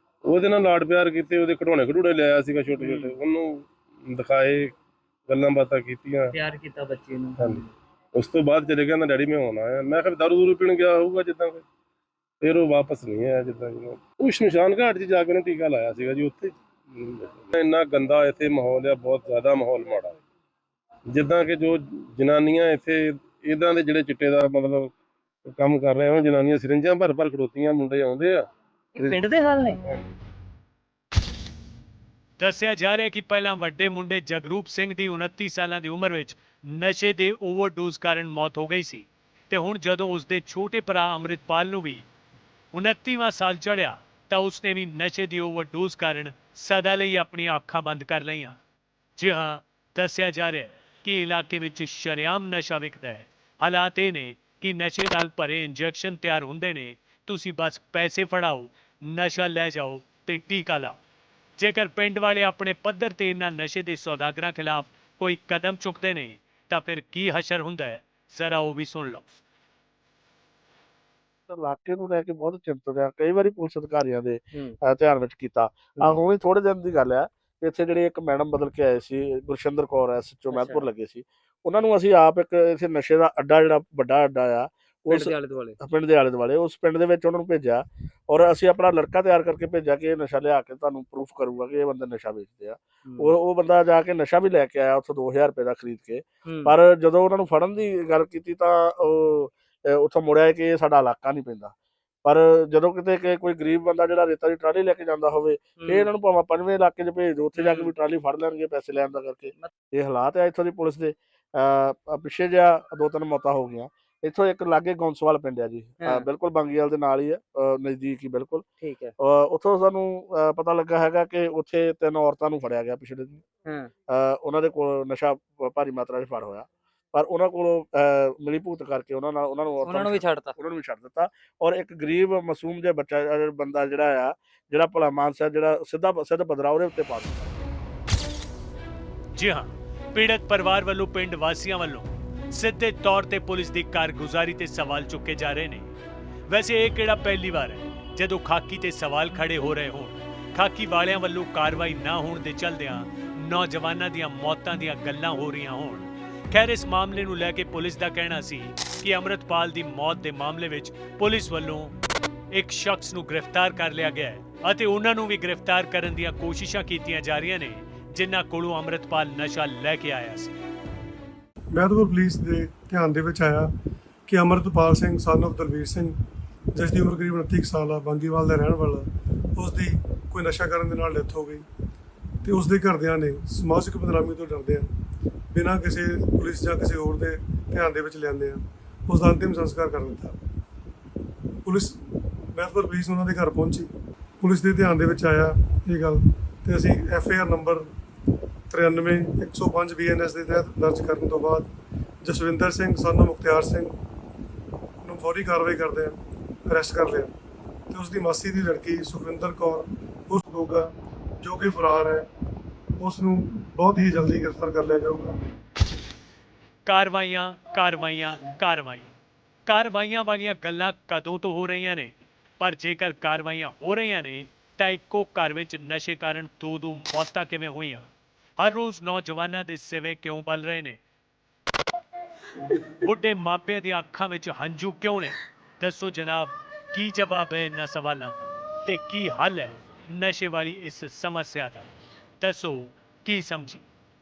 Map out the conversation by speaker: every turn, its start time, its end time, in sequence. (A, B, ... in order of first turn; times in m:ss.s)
0:00.2-0:04.8 A
0:02.8-0:03.1 B
0:05.3-0:06.3 A
0:06.3-0:07.7 B
0:07.4-0:11.6 A
0:12.4-0:20.1 A
0:21.1-0:24.9 A
0:25.5-0:28.4 A
0:29.0-0:29.8 B
0:32.4-0:42.0 C
0:42.7-0:48.5 C
0:49.2-1:00.9 C
1:01.6-1:09.2 C
1:11.5-1:41.7 D
1:20.5-1:20.8 B
1:25.1-1:25.8 B
1:33.1-1:33.3 B
1:36.5-1:36.7 B
1:42.2-1:58.6 D
1:45.8-1:46.0 B
1:47.6-1:47.9 B
1:58.8-1:59.1 B
1:59.2-2:03.4 D
2:04.1-2:17.6 D
2:09.8-2:10.5 B
2:19.3-2:25.9 C
2:26.5-2:41.9 C
2:42.5-2:50.5 C
2:51.7-2:53.7 E
2:54.3-2:56.2 E
2:56.7-3:01.6 E
3:02.4-3:04.9 E
3:05.5-3:10.4 E
3:11.6-3:13.9 E
3:14.4-3:17.9 E
3:18.7-3:21.7 E
3:22.2-3:23.9 E
3:25.0-3:27.3 E
3:27.9-3:32.3 E
3:33.0-3:35.3 E
3:36.8-3:39.1 C
3:39.7-3:48.0 C
3:48.6-3:51.0 C
3:52.9-3:58.3 C
3:58.8-4:01.9 C
4:02.4-4:03.8 C